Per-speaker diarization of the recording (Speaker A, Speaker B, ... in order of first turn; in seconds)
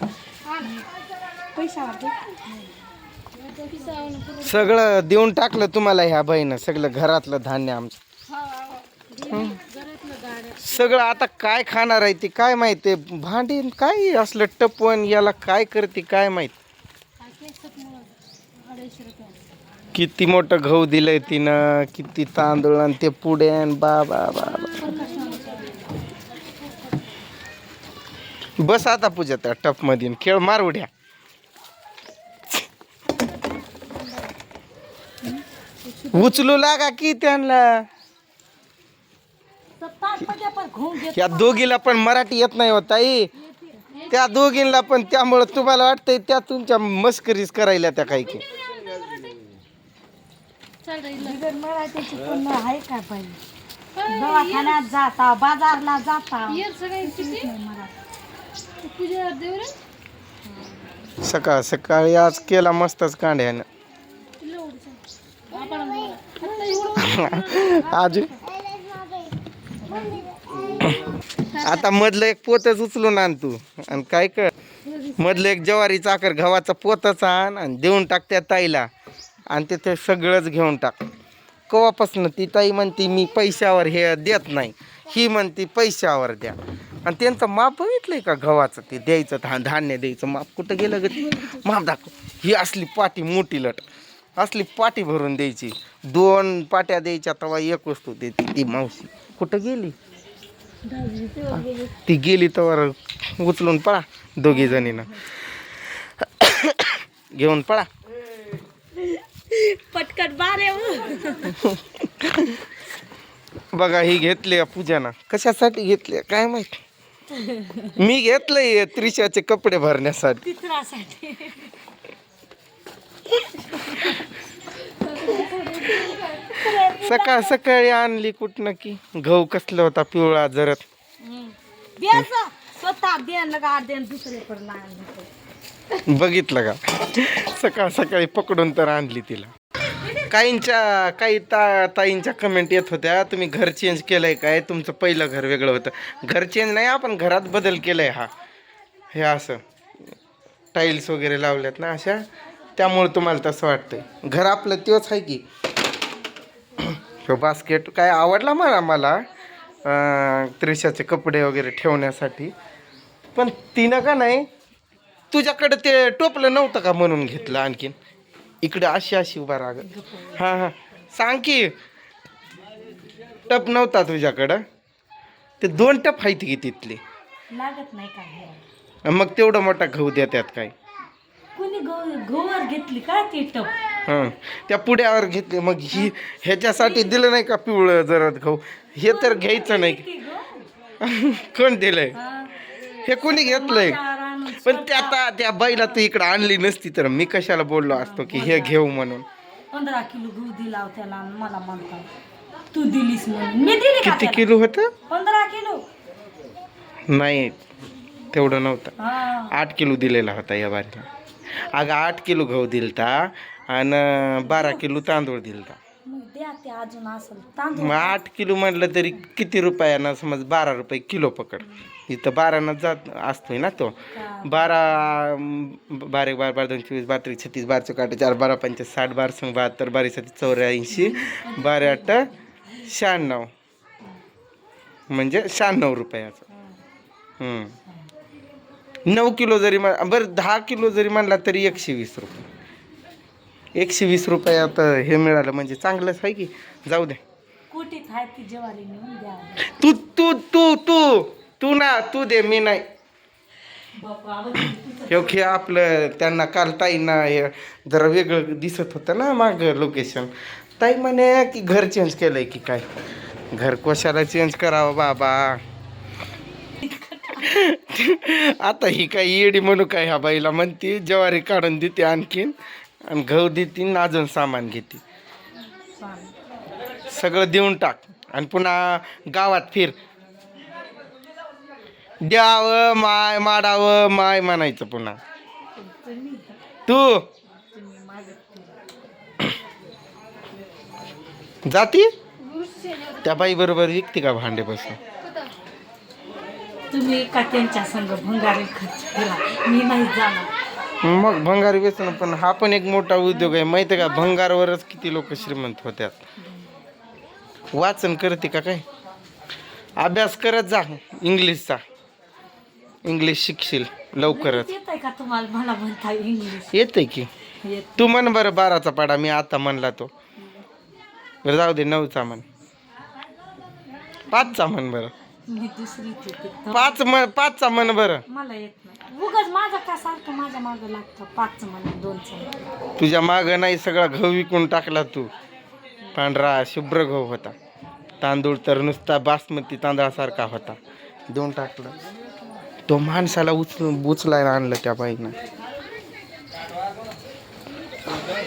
Speaker A: 1.5-2.1, 24.8-25.6, 39.8-41.6, 51.1-53.4, 54.0-57.9, 104.5-105.0, 109.0-111.6, 117.3-118.0, 120.4-121.8, 123.7-124.2, 125.0-127.6, 131.2-135.3, 169.9-170.4, 177.5-178.6, 181.5-183.7, 186.8-187.1, 189.0-190.6, 192.1-192.6, 193.2-195.2, 197.9-198.8, 199.7-202.1, 202.7-204.5, 205.1-205.8, 209.0-209.6, 214.4-214.8, 216.1-218.2, 224.1-225.1, 230.9-232.9, 247.7-249.8, 253.9-255.6, 266.8-267.5, 275.9-276.3, 285.8-286.4, 287.7-288.7, 296.9-300.5, 314.2-316.8, 317.6-318.1, 325.5-327.0, 328.3-332.5
Speaker B: 3.5-4.5, 8.9-10.8, 17.2-18.1, 18.6-19.4, 25.0-25.4, 48.8-49.4, 50.8-51.4, 54.0-54.8, 56.5-57.5, 58.8-59.8, 64.4-65.0, 65.5-67.8, 69.9-70.2, 74.9-75.2, 101.3-101.9
Speaker C: 4.4-8.0, 9.2-9.6, 10.6-16.5, 19.9-24.8, 28.6-30.9, 36.1-37.9, 41.1-43.3, 44.1-48.4, 61.2-63.6, 67.0-68.3, 70.8-71.1, 71.6-74.5, 75.2-78.9, 79.5-81.0, 81.7-93.8, 94.4-99.9, 101.6-107.9, 111.6-112.6, 113.7-116.8, 118.0-120.4, 126.7-130.8, 136.0-139.5, 140.2-148.3, 149.1-149.6, 150.7-152.2, 152.8-155.4, 156.8-159.2, 159.8-162.5, 163.3-164.5, 165.3-167.9, 168.6-171.7, 173.5-174.6, 175.6-177.0, 179.0-180.7, 184.1-190.0, 191.0-192.1, 193.0-194.0, 194.6-199.2, 204.0-204.9, 207.1-207.6, 208.3-208.9, 209.5-211.1, 211.7-215.8, 217.8-232.3, 232.8-233.5, 235.1-236.4, 237.4-237.7, 239.1-242.4, 243.7-247.2, 249.6-252.8, 255.1-262.8, 263.5-265.6, 267.4-272.6, 273.1-275.0, 277.1-280.0, 282.2-285.2, 286.9-287.3, 291.6-292.1, 293.2-295.0, 301.0-306.2, 307.7-308.8, 310.0-311.8, 313.1-314.7, 316.7-317.3, 318.0-320.1, 321.4-322.4, 324.3-325.1, 326.7-328.2, 333.0-335.3, 336.1-337.5, 338.2-340.8, 341.3-341.9, 342.9-345.3